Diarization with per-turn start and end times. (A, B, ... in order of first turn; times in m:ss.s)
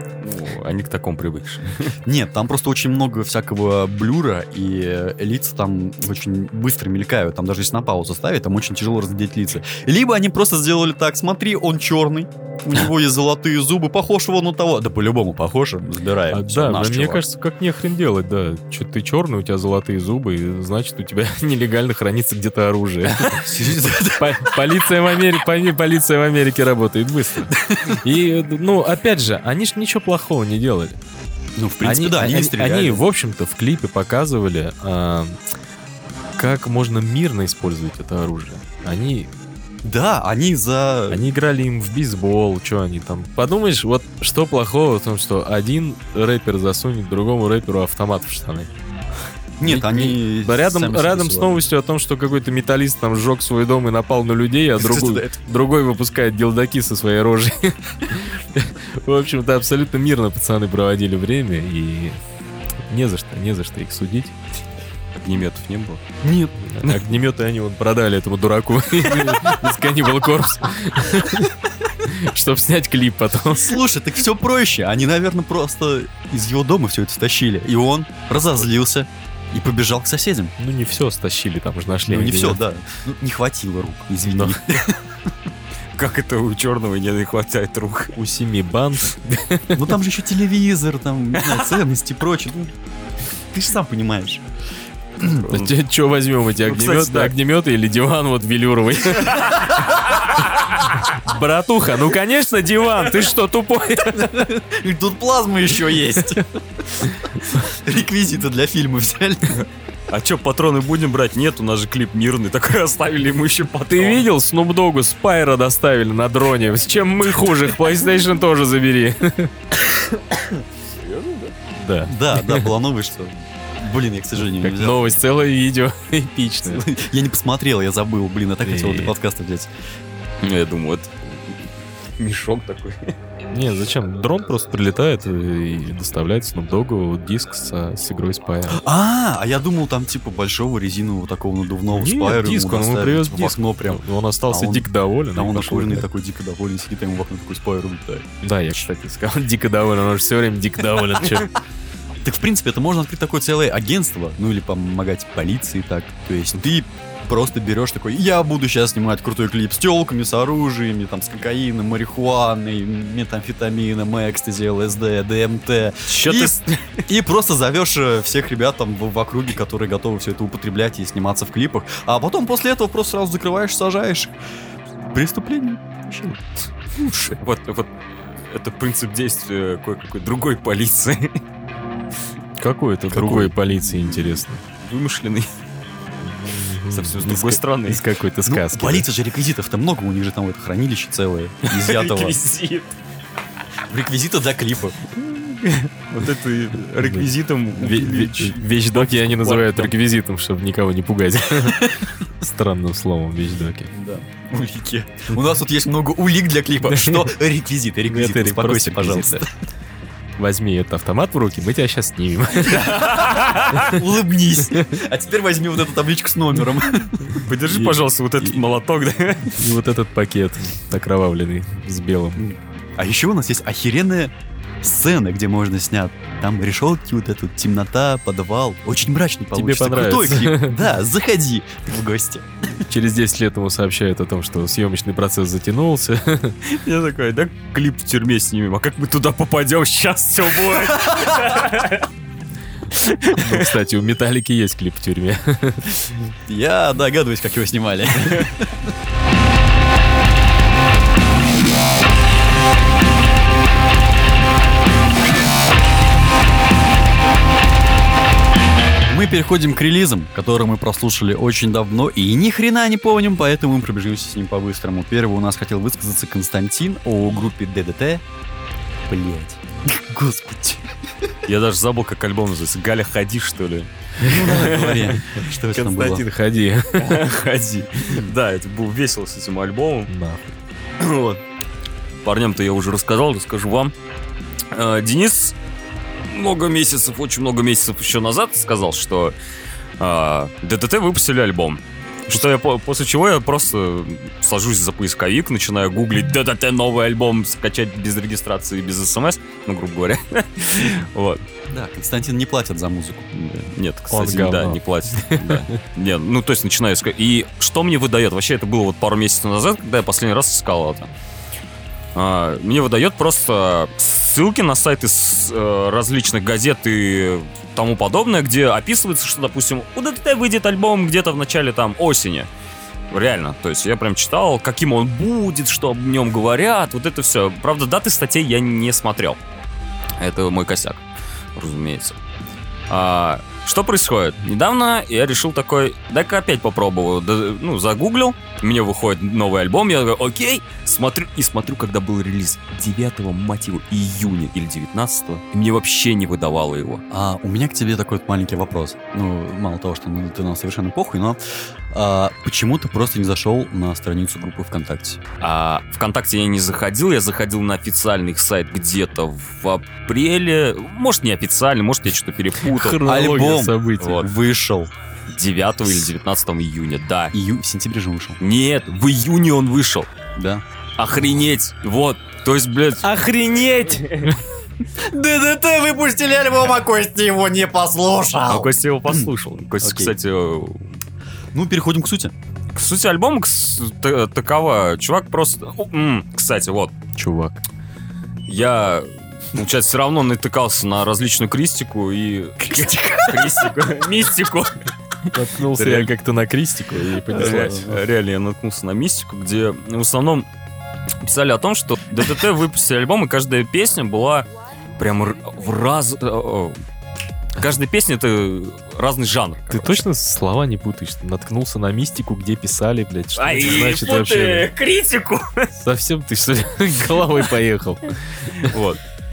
0:00.2-0:01.9 A
0:02.1-0:17.2 B
0:16.3-0:23.5 C
0:23.3-0:24.6 B
0:24.2-0:31.0 C
0:27.6-0:28.0 B
0:31.6-0:33.0 B
0:31.8-0:35.4 C
0:36.4-0:39.3 C
0:39.8-0:41.2 B
0:41.1-0:48.7 C
0:49.6-0:51.6 B
0:49.6-1:02.2 C
0:54.8-0:55.4 B
1:02.9-1:04.4 C
1:05.2-1:06.0 A
1:06.2-1:06.5 B
1:06.6-1:13.8 C
1:13.6-1:20.5 B
1:20.6-1:22.6 C
1:22.1-1:25.1 B
1:24.2-1:24.6 C
1:26.0-1:28.1 A
1:28.2-1:30.0 C
1:29.7-1:32.7 B
1:33.5-1:34.4 B
1:35.2-1:35.5 B
1:35.4-1:44.5 C
1:35.5-1:35.7 A
1:36.6-1:37.3 A
1:40.1-1:40.6 A
1:44.1-1:49.7 B
1:50.1-1:54.3 A
1:53.9-1:59.5 C
2:00.4-2:01.5 A
2:01.8-2:02.7 C
2:02.0-2:05.1 B
2:04.4-2:06.9 C
2:06.6-2:09.7 B
2:08.6-2:09.2 C
2:10.4-2:13.1 A
2:13.5-2:18.8 C
2:18.7-2:28.3 B
2:21.9-2:26.1 C
2:28.4-2:31.5 C
2:32.2-2:54.3 B
2:46.1-2:47.0 A
2:55.1-2:57.4 B
2:57.4-3:01.4 A
3:02.6-3:04.6 C
3:03.1-3:04.4 B
3:04.8-3:05.5 A
3:06.2-3:09.1 C
3:06.9-3:08.0 A
3:08.4-3:12.4 B
3:11.7-3:12.9 A
3:13.9-3:15.0 B
3:15.2-3:19.9 A
3:17.0-3:23.9 C
3:21.6-3:22.1 B
3:23.9-3:29.5 B
3:26.9-3:27.3 C
3:28.1-3:29.5 C
3:30.4-3:33.0 C
3:32.8-3:33.9 A
3:32.9-3:37.4 B
3:37.3-3:39.6 A
3:37.7-3:38.0 C
3:39.6-3:42.5 C
3:42.4-3:52.5 B
3:49.5-3:50.8 C
3:52.9-3:56.6 C
3:56.6-4:02.1 A
4:03.0-4:03.7 A
4:03.3-4:06.3 C
4:06.5-4:08.9 B
4:19.1-4:28.2 B
4:29.1-4:30.9 B
4:31.5-4:35.1 A
4:34.2-4:36.2 B
4:34.2-4:37.2 C
4:37.0-4:40.1 A
4:40.1-4:40.5 C
4:41.0-4:41.4 A
4:42.2-4:43.9 A
4:44.7-4:45.6 A
4:46.3-4:49.4 A
4:50.0-5:01.4 A
5:01.7-5:03.4 B
5:03.4-5:11.1 A
5:04.1-5:05.8 C
5:12.2-5:22.5 A
5:23.1-5:29.4 A
5:30.2-5:31.0 A
5:31.6-5:32.2 A
5:32.9-5:47.0 A
5:47.1-5:51.4 B
5:51.9-5:55.2 B
5:55.4-6:03.0 A
6:02.6-6:04.2 C
6:02.9-6:04.9 B
6:04.0-6:04.3 A
6:05.3-6:07.4 A
6:07.3-6:08.4 B
6:08.4-6:10.1 A
6:10.4-6:10.6 B
6:11.0-6:14.4 A
6:13.0-6:14.3 C
6:15.0-6:20.2 B
6:18.5-6:21.0 A
6:21.5-6:22.3 B
6:22.7-6:27.0 A
6:27.2-6:27.6 C
6:28.5-6:34.8 A
6:32.6-6:33.7 B
6:35.3-6:38.0 C
6:35.8-6:36.1 A
6:37.3-6:40.5 A
6:41.2-6:46.8 A
6:47.6-6:50.0 A
6:49.7-6:54.7 C
6:53.4-6:55.7 A
6:55.8-6:58.8 C
6:58.6-6:59.0 A